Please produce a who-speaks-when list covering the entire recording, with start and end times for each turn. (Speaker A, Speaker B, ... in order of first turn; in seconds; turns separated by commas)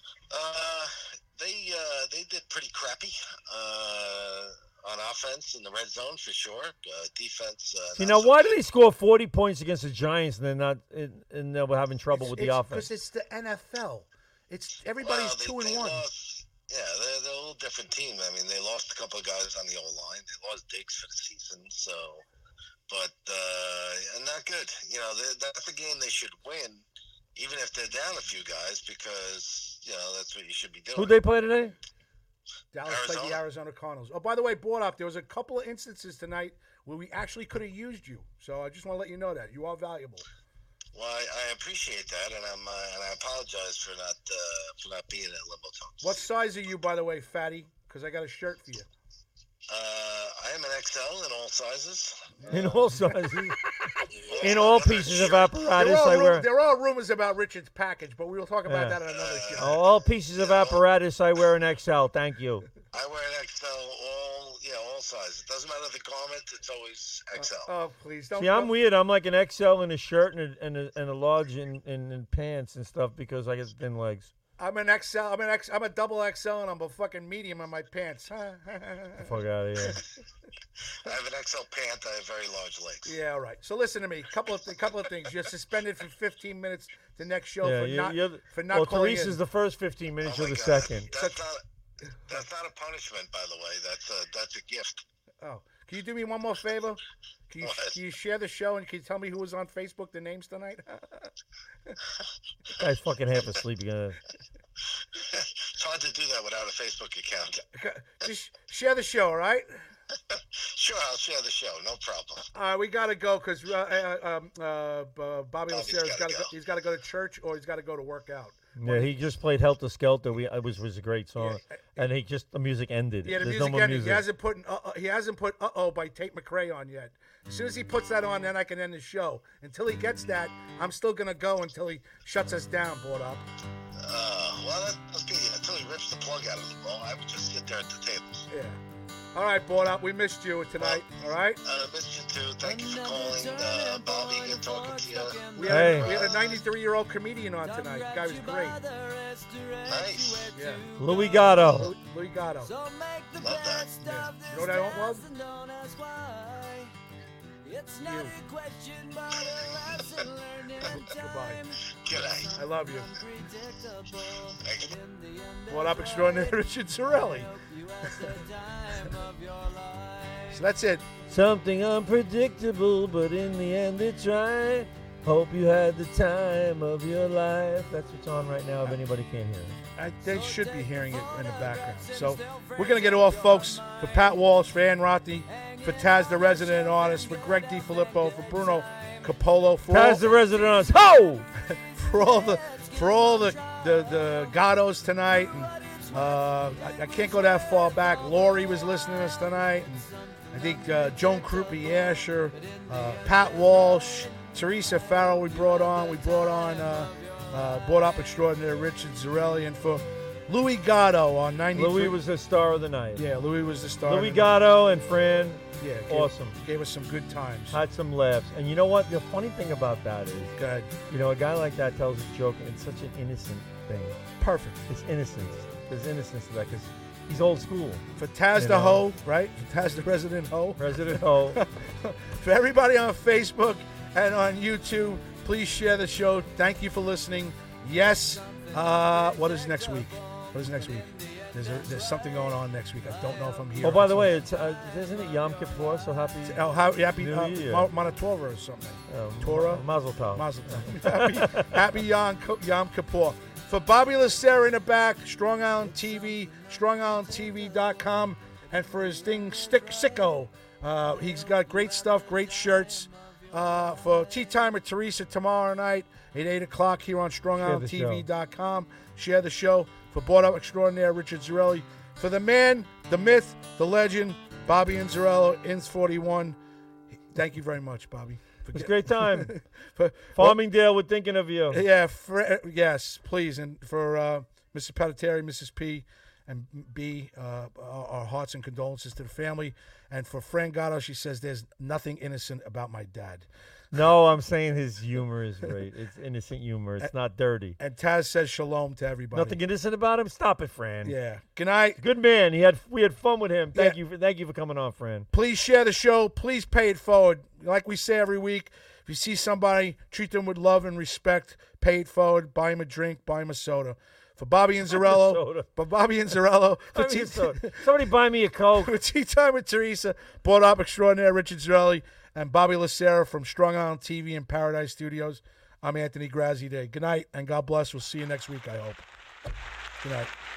Speaker A: 0.3-8.6, Speaker B: 7.9-12.9, Speaker C: 12.1-16.1, Speaker A: 15.0-22.2, Speaker A: 22.9-26.8, Speaker A: 27.4-31.1, Speaker B: 30.9-31.7, Speaker C: 32.7-40.2, Speaker A: 32.9-33.4, Speaker A: 40.9-46.3, Speaker C: 46.0-48.9, Speaker A: 49.7-52.3, Speaker C: 52.4-53.2, Speaker B: 52.5-53.6, Speaker A: 54.2-55.5, Speaker B: 54.4-56.5, Speaker C: 55.7-59.8, Speaker B: 58.6-59.0, Speaker A: 59.0-59.8, Speaker B: 59.5-62.6, Speaker A: 60.3-60.8, Speaker A: 62.9-67.7, Speaker C: 67.4-68.7, Speaker B: 68.3-74.3, Speaker C: 74.6-79.3, Speaker B: 79.2-80.0, Speaker A: 81.0-83.2, Speaker C: 83.0-89.4, Speaker B: 87.6-91.1, Speaker A: 90.2-91.6, Speaker C: 91.1-91.4, Speaker A: 92.3-95.0, Speaker C: 95.4-101.3, Speaker A: 97.6-98.0, Speaker B: 102.8-104.2, Speaker A: 105.2-107.6, Speaker C: 107.7-109.7, Speaker A: 110.3-112.5, Speaker C: 112.5-119.2, Speaker A: 115.7-116.5, Speaker B: 118.8-124.2, Speaker C: 121.4-122.0, Speaker C: 123.2-133.4, Speaker A: 134.0-138.5, Speaker C: 138.5-138.8, Speaker C: 139.3-141.6, Speaker A: 141.6-146.4, Speaker C: 145.5-148.8, Speaker B: 145.6-146.1, Speaker A: 149.8-150.5, Speaker C: 150.5-150.8, Speaker B: 151.0-151.9, Speaker C: 151.6-152.7, Speaker A: 153.4-154.0, Speaker C: 154.0-155.3, Speaker C: 157.9-158.4, Speaker A: 159.4-160.2, Speaker C: 160.8-161.7, Speaker A: 162.0-162.6, Speaker C: 162.5-163.1, Speaker A: 164.5-164.9, Speaker C: 165.7-167.5, Speaker C: 170.5-171.1, Speaker B: 171.3-179.8, Speaker C: 180.0-190.2, Speaker B: 189.9-191.5, Speaker C: 191.7-212.2, Speaker B: 211.7-213.3, Speaker C: 213.2-214.6, Speaker B: 214.1-216.6, Speaker C: 215.8-217.8, Speaker B: 217.7-220.6, Speaker C: 220.6-220.9, Speaker B: 221.1-224.2, Speaker C: 224.4-224.8, Speaker B: 224.9-229.0, Speaker C: 228.2-244.4, Speaker B: 230.8-231.6, Speaker B: 243.8-246.7, Speaker C: 246.4-276.6, Speaker B: 247.2-247.9, Speaker B: 249.1-251.8, Speaker B: 267.6-268.3, Speaker C: 277.3-280.6, Speaker B: 278.7-279.5, Speaker B: 280.3-281.8, Speaker C: 281.7-293.5, Speaker B: 293.9-297.8, Speaker C: 297.8-299.6, Speaker B: 299.3-301.2, Speaker C: 301.0-302.0, Speaker B: 302.0-305.3, Speaker C: 305.3-317.8, Speaker B: 314.9-315.7, Speaker B: 316.9-318.9, Speaker C: 318.7-329.1, Speaker C: 330.0-330.3